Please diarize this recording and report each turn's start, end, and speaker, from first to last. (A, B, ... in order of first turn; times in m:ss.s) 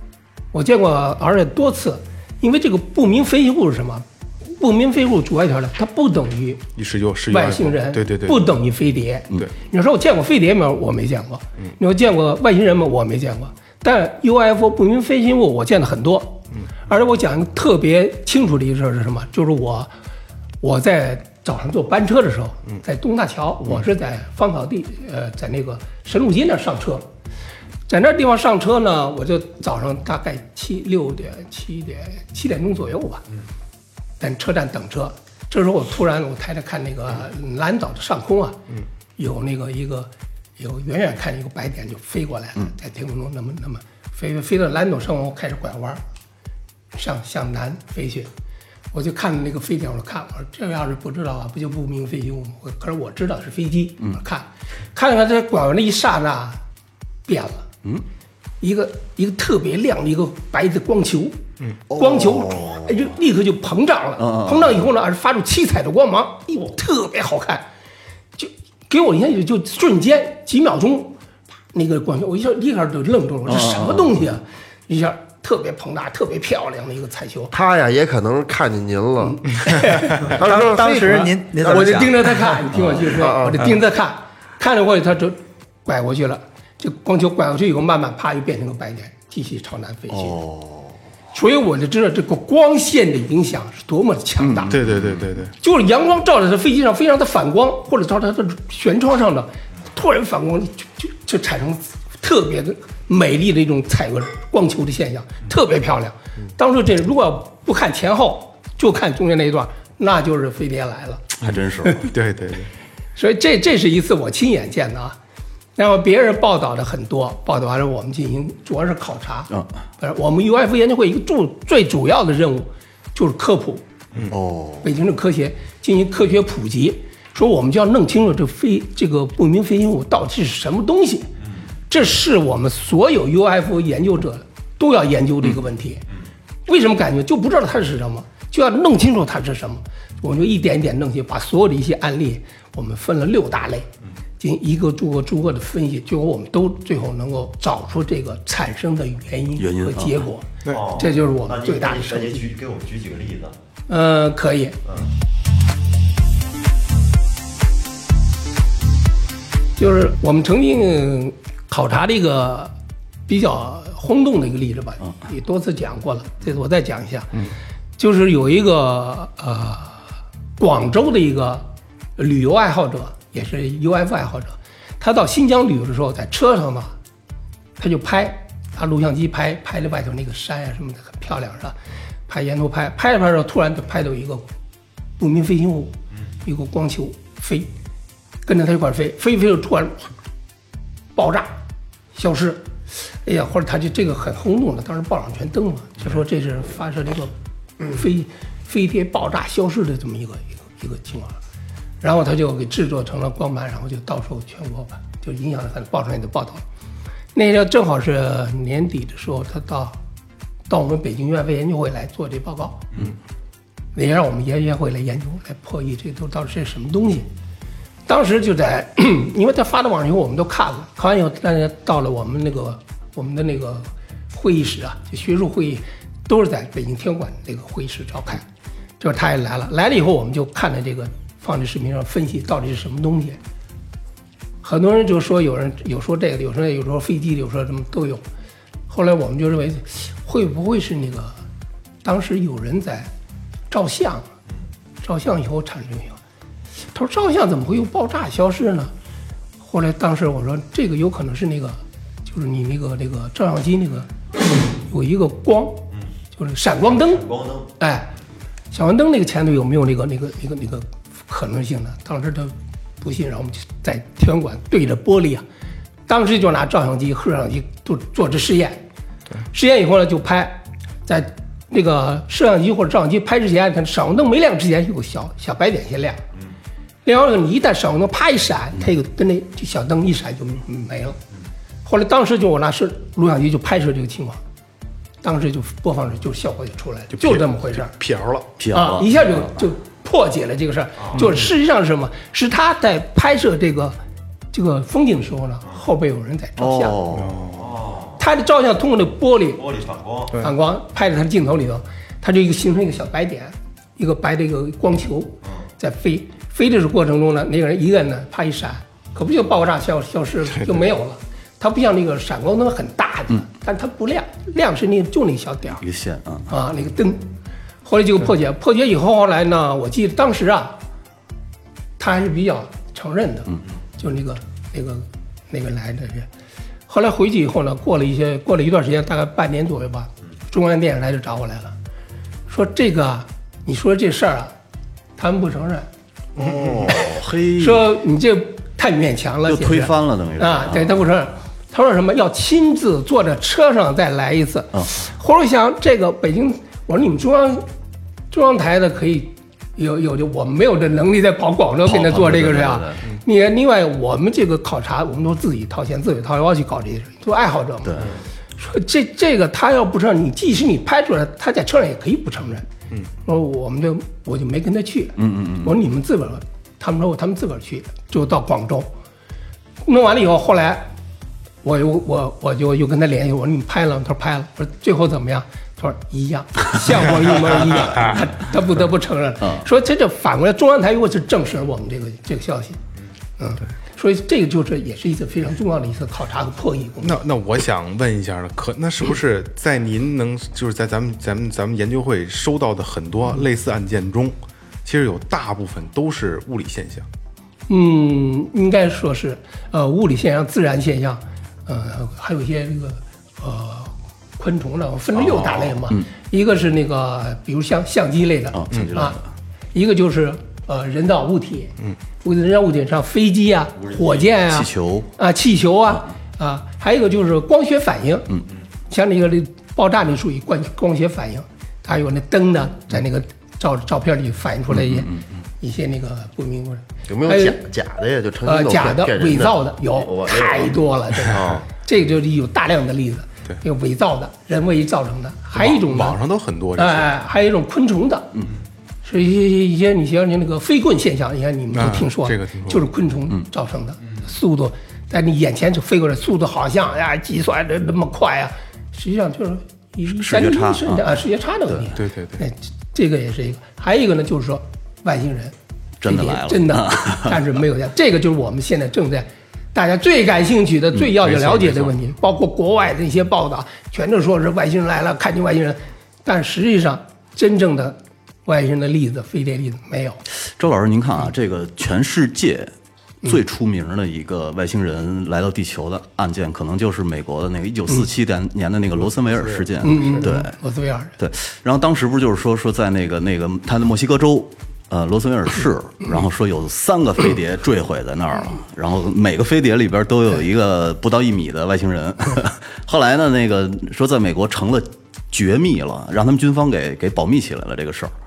0:00.5-0:06.6 A
0:06.8-0:08.5 B
0:07.3-0:19.9 A
0:20.6-0:27.1 A
0:27.9-0:33.2 A
0:34.2-0:38.6 A
0:39.2-0:46.0 A
0:46.9-0:48.3 A
0:48.9-0:56.6 A
0:57.3-0:57.7 A
0:58.6-1:01.4 A
1:01.9-1:03.0 C
1:01.9-1:07.6 A
1:04.2-1:04.8 C
1:08.4-1:11.2 A
1:11.7-1:17.5 A
1:13.5-1:14.3 C
1:17.5-1:19.4 D
1:19.2-1:20.3 A
1:20.3-1:21.3 D
1:20.4-1:22.6 E
1:21.6-1:30.4 A
1:22.7-1:23.2 C
1:23.1-1:23.8 D
1:30.1-1:31.0 C
1:31.3-1:34.8 A
1:34.4-1:35.3 C
1:34.7-1:35.5 B
1:35.6-1:51.3 A
1:51.4-1:52.1 C
1:52.1-1:52.7 B
1:53.2-1:55.2 A
1:55.8-2:03.8 A
2:04.3-2:04.9 C
2:04.8-2:11.3 A
2:11.9-2:16.0 A
2:16.7-2:23.9 A
2:24.4-2:32.5 A
2:29.6-2:30.2 C
2:30.7-2:33.6 F
2:33.9-2:34.8 A
2:39.8-2:42.7 A
2:43.3-2:47.3 A
2:48.0-2:50.0 A
2:50.6-2:57.0 A
2:57.8-3:01.8 A
3:02.3-3:04.5 A
3:05.2-3:07.7 A
3:08.4-3:10.0 A
3:11.2-3:11.5 A
3:12.2-3:12.7 A
3:13.2-3:17.3 A
3:17.8-3:21.4 A
3:22.0-3:26.6 A
3:27.3-3:30.0 A
3:30.7-3:32.9 A
3:34.0-3:37.3 A
3:38.1-3:48.5 A
3:49.0-3:53.4 A
3:54.6-3:58.2 A
3:58.9-4:01.4 A
4:02.0-4:03.1 A
4:03.7-4:04.3 A
4:05.0-4:06.2 A
4:06.9-4:08.9 A
4:09.6-4:14.1 A
4:14.7-4:18.1 A
4:16.9-4:17.7 F
4:18.7-4:25.4 A
4:26.1-4:28.8 A
4:29.5-4:36.2 A
4:37.0-4:41.2 A
4:41.8-4:44.4 A
4:45.2-4:47.9 A
4:47.1-4:48.5 B
4:48.6-4:49.4 C
4:48.7-4:54.0 A
4:51.0-4:51.3 F
4:54.5-4:57.0 A
4:56.6-4:57.4 C
4:57.1-4:57.8 B
4:57.5-4:58.2 F
4:58.2-4:59.6 A
4:59.6-5:00.4 F
5:00.4-5:15.8 A
5:15.8-5:16.5 C
5:16.5-5:17.3 A
5:17.8-5:20.8 A
5:22.0-5:26.3 A
5:26.9-5:31.8 A
5:32.5-5:34.5 A
5:35.2-5:35.9 A
5:36.4-5:37.8 C
5:37.6-5:47.7 A
5:39.5-5:41.0 C
5:48.3-5:58.0 A
5:51.8-5:53.0 C
5:58.6-6:02.7 A
6:03.2-6:08.9 A
6:05.2-6:05.7 C
6:09.8-6:10.9 A
6:11.6-6:22.8 A
6:23.4-6:27.2 A
6:27.0-6:37.1 B
6:37.7-6:49.2 A
6:48.5-6:49.2 C
6:49.7-6:58.3 A
6:53.8-6:54.2 F
6:54.5-6:55.1 C
6:58.9-7:05.1 A
7:04.8-7:05.2 C
7:05.6-7:07.6 A
7:07.1-7:10.8 D
7:08.4-7:16.2 A
7:11.3-7:11.6 B
7:15.6-7:17.1 B
7:16.8-7:18.3 A
7:19.0-7:50.2 A
7:21.7-7:22.8 B
7:30.1-7:31.0 C
7:32.0-7:32.4 B
7:36.0-7:37.4 C
7:41.0-7:41.9 C
7:50.6-7:52.7 C
7:53.2-8:00.5 C
7:59.0-8:00.3 B
7:59.8-8:01.1 A
8:01.2-8:18.1 C